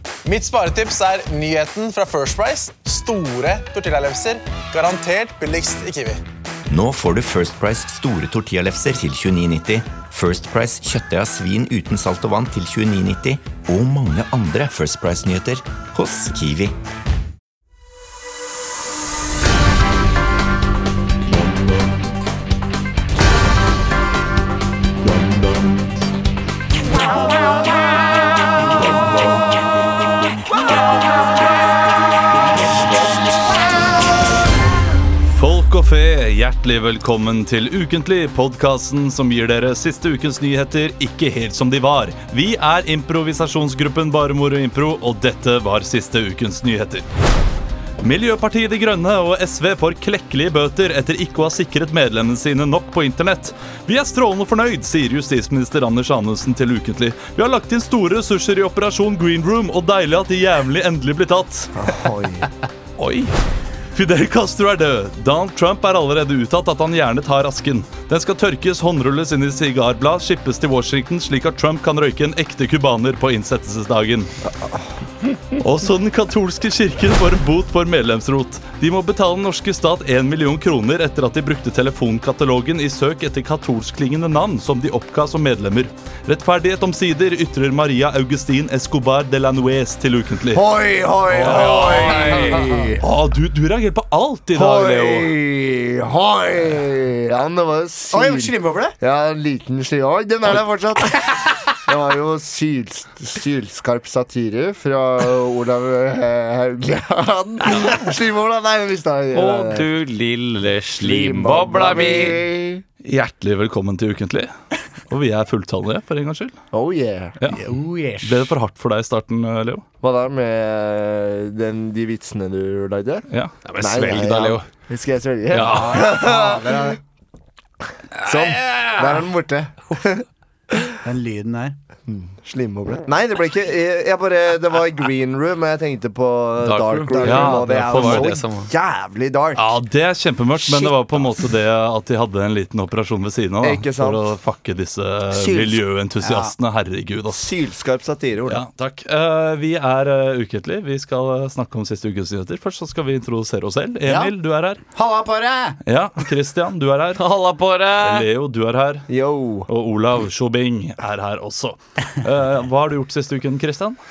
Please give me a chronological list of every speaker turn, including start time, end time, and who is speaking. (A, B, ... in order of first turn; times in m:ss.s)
0:00.2-0:06.2 A
0:06.7-0:16.7 B
0:35.3-0:47.1 C
0:48.0-1:01.7 C
1:01.8-1:02.5 D
1:03.0-1:03.3 C
1:03.9-1:14.3 C
1:14.5-1:14.8 D
1:15.6-1:30.6 C
1:30.5-1:33.0 D
1:31.4-1:32.2 C
1:31.4-1:32.9 E
1:31.5-1:32.5 F
1:33.0-1:35.3 C
1:34.5-1:49.9 D
1:38.1-1:39.0 E
1:49.3-1:52.4 F
1:51.0-1:52.8 D
1:53.0-1:54.5 C
1:55.1-1:56.6 C
1:56.7-1:57.4 D
1:57.5-1:58.5 E
1:58.2-1:59.8 C
2:00.0-2:03.3 D
2:03.6-2:04.7 F
2:03.8-2:07.0 D
2:05.5-2:06.1 C
2:05.6-2:07.0 E
2:08.2-2:11.0 D
2:08.3-2:09.0 F
2:11.0-2:11.8 E
2:12.1-2:19.7 D
2:16.6-2:18.7 F
2:17.2-2:18.4 C
2:19.6-2:27.5 C
2:20.6-2:21.3 D
2:23.6-2:24.2 D
2:25.3-2:25.8 D
2:26.2-2:26.5 E
2:27.3-2:28.6 D
2:28.5-2:34.8 C
2:34.1-2:34.3 E
2:35.0-2:35.8 E
2:35.9-2:37.2 C
2:37.2-2:38.3 F
2:38.0-2:39.1 C
2:39.1-2:39.7 D
2:39.7-2:44.0 C